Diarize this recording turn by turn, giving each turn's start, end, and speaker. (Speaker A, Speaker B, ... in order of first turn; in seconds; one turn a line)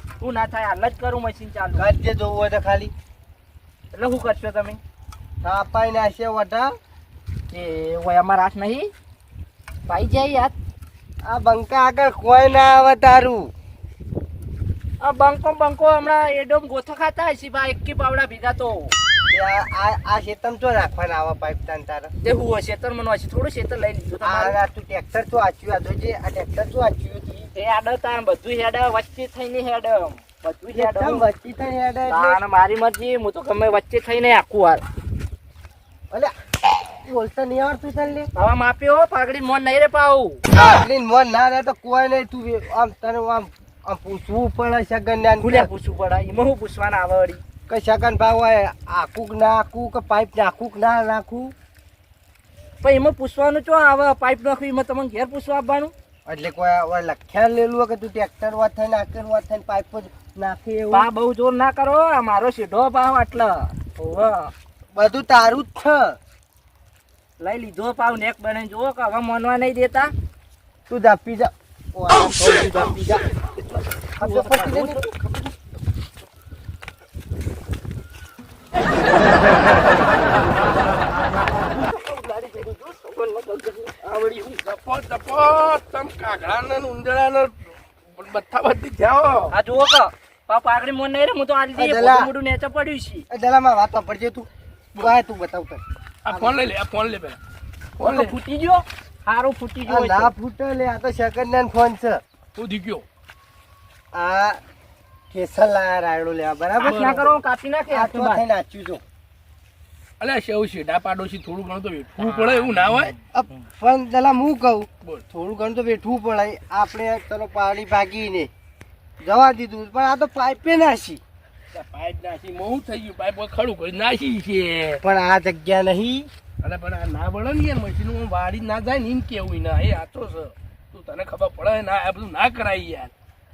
Speaker A: 0.2-1.9
Speaker B: 1.8-2.9
Speaker A: 3.9-4.8
Speaker B: 5.4-6.7
Speaker A: 7.5-8.9
Speaker A: 9.9-10.5
Speaker B: 11.2-13.5
Speaker A: 15.0-18.9
Speaker B: 19.3-22.1
Speaker A: 22.2-24.6
Speaker B: 24.2-27.5
Speaker A: 27.5-31.2
Speaker B: 30.7-32.4
Speaker A: 32.1-34.8
Speaker B: 37.0-38.3
Speaker A: 38.3-40.4
Speaker B: 40.5-45.7
Speaker A: 45.4-47.4
Speaker B: 47.7-51.5
Speaker A: 52.8-55.9
Speaker B: 56.2-61.1
Speaker A: 60.9-64.5
Speaker B: 64.9-66.2
Speaker A: 67.4-70.1
Speaker B: 70.9-73.2
Speaker A: 74.2-75.4
Speaker B: 74.2-75.0
Speaker A: 80.7-84.6
Speaker C: 84.6-89.5
Speaker A: 89.5-93.2
Speaker B: 91.8-92.3
Speaker B: 93.3-96.6
Speaker C: 96.2-97.4
Speaker C: 98.0-98.3
Speaker A: 98.0-100.3
Speaker B: 99.9-102.2
Speaker C: 102.5-103.0
Speaker B: 104.1-104.6
Speaker B: 105.3-107.3
Speaker A: 106.8-108.4
Speaker C: 106.8-107.2
Speaker B: 107.9-109.0
Speaker C: 110.2-113.1
Speaker A: 112.2-113.6
Speaker B: 113.3-118.5
Speaker B: 119.2-121.2
Speaker C: 121.7-125.0
Speaker B: 125.0-126.3
Speaker C: 126.6-133.1